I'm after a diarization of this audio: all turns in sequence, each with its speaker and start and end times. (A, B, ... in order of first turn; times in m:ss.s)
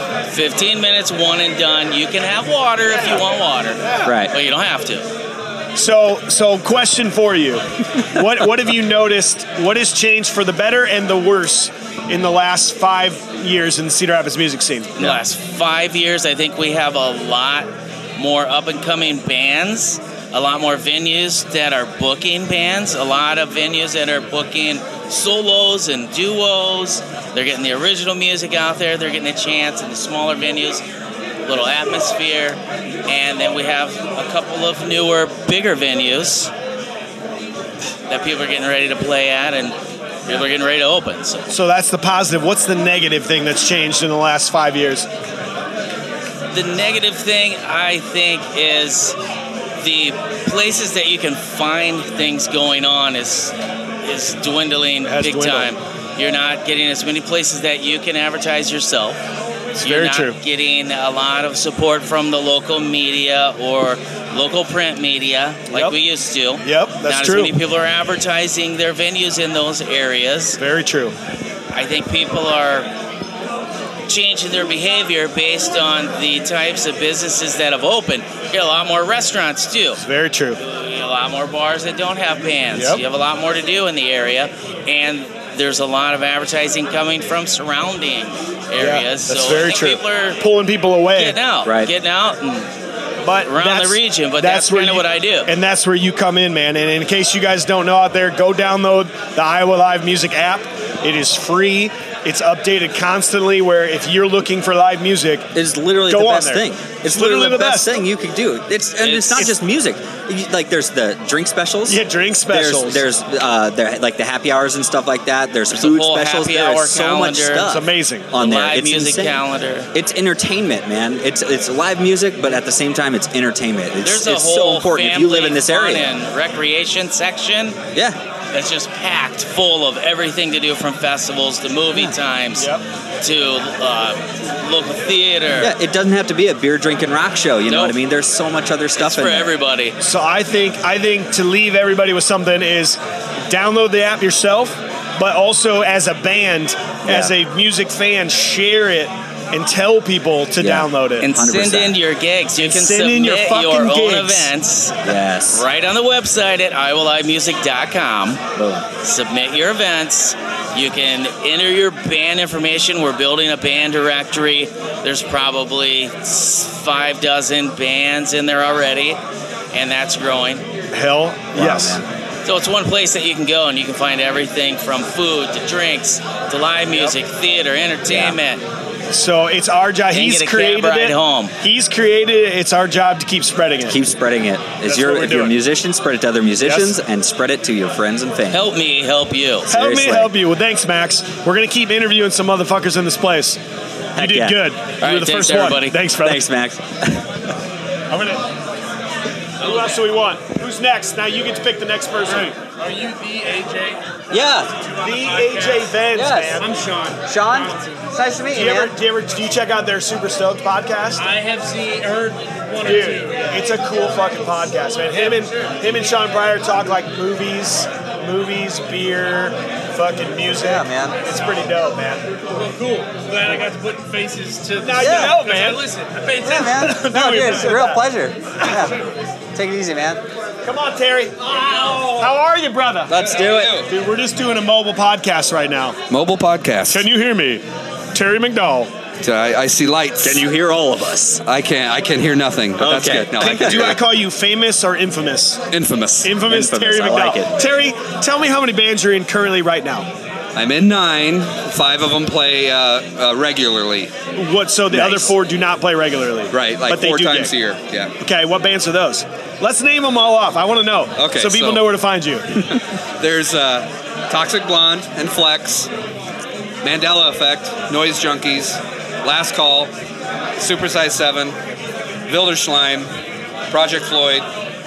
0:00.3-0:05.1 A
0:03.8-0:04.2 B
0:04.0-0:04.3 C
0:05.8-0:15.0 B
0:15.0-0:30.8 A
0:31.5-0:36.5 A
0:38.1-0:39.8 A
0:40.3-0:41.5 A
0:41.5-0:45.1 B
0:46.5-0:49.2 A
0:49.8-0:59.2 A
0:55.0-0:55.7 B
0:59.8-1:10.6 A
0:59.8-1:00.4 B
1:05.7-1:06.0 B
1:06.6-1:07.5 B
1:10.6-1:11.2 B
1:11.7-1:12.9 A
1:14.1-1:20.0 A
1:20.0-1:20.6 B
1:20.6-1:30.4 A
1:22.7-1:23.0 B
1:28.8-1:31.4 B
1:31.2-1:32.7 A
1:31.6-1:31.9 C
1:33.2-1:45.5 B
1:33.4-1:35.5 A
1:45.5-1:59.4 C
1:46.0-1:48.0 B
1:49.0-1:49.5 A
1:51.9-1:53.0 B
1:55.7-1:57.7 A
1:57.7-1:58.3 B
1:58.4-1:59.9 A
1:59.9-2:06.1 C
2:04.0-2:07.8 A
2:08.5-2:12.7 A
2:12.6-2:12.8 B
2:13.2-2:15.7 A
2:15.6-2:19.5 C
2:17.7-2:18.0 A
2:19.0-2:20.0 A
2:20.0-2:31.3 B
2:27.1-2:27.3 C
2:30.6-2:32.0 C
2:31.2-2:38.4 A
2:32.6-2:34.5 B
2:35.0-2:35.6 C
2:38.6-2:38.8 C
2:39.0-2:49.2 A
2:49.7-2:50.6 A
2:50.9-2:52.0 B
2:51.5-2:52.0 C
2:52.4-2:58.6 A
2:58.1-2:58.4 C
2:59.1-3:04.0 B
3:00.1-3:01.5 A
3:03.9-3:08.6 C
3:04.8-3:05.5 B
3:06.6-3:07.0 B
3:08.5-3:09.7 A
3:09.7-3:13.6 B
3:09.7-3:10.3 C
3:14.2-3:14.6 C
3:14.2-3:16.4 B
3:15.0-3:16.0 A
3:16.2-3:17.4 C
3:18.1-3:18.4 B
3:19.6-3:22.6 B
3:19.6-3:20.0 D
3:22.3-3:24.0 D
3:24.3-3:24.7 C
3:24.7-3:28.0 D
3:25.0-3:26.8 B
3:26.1-3:26.6 C
3:27.2-3:28.9 C
3:28.5-3:31.2 B
3:31.2-3:33.7 D
3:32.8-3:42.4 B
3:35.1-3:35.8 D
3:40.6-3:41.2 C
3:42.5-3:47.7 D
3:44.8-3:45.8 B
3:45.0-3:45.4 C
3:46.4-3:49.0 C
3:46.7-3:48.0 B
3:49.5-3:50.2 C
3:50.6-3:53.3 B
3:51.6-3:52.3 D
3:53.1-3:53.8 C
3:53.1-3:53.9 E
3:53.8-3:56.0 B
3:56.1-3:57.1 E
3:56.9-3:58.9 B
3:59.2-4:00.5 E
4:00.2-4:01.4 C
4:01.4-4:04.0 E
4:02.8-4:04.0 C
4:03.4-4:05.6 B
4:05.7-4:06.3 E
4:06.2-4:10.1 B
4:06.4-4:07.5 C
4:10.5-4:14.1 E
4:14.3-4:17.5 B
4:14.9-4:15.3 C
4:16.5-4:18.1 E
4:18.2-4:22.4 B
4:21.2-4:21.9 E
4:22.7-4:25.9 E
4:26.8-4:29.9 E
4:30.6-4:31.5 E
4:32.3-4:33.1 E
4:33.7-4:34.4 E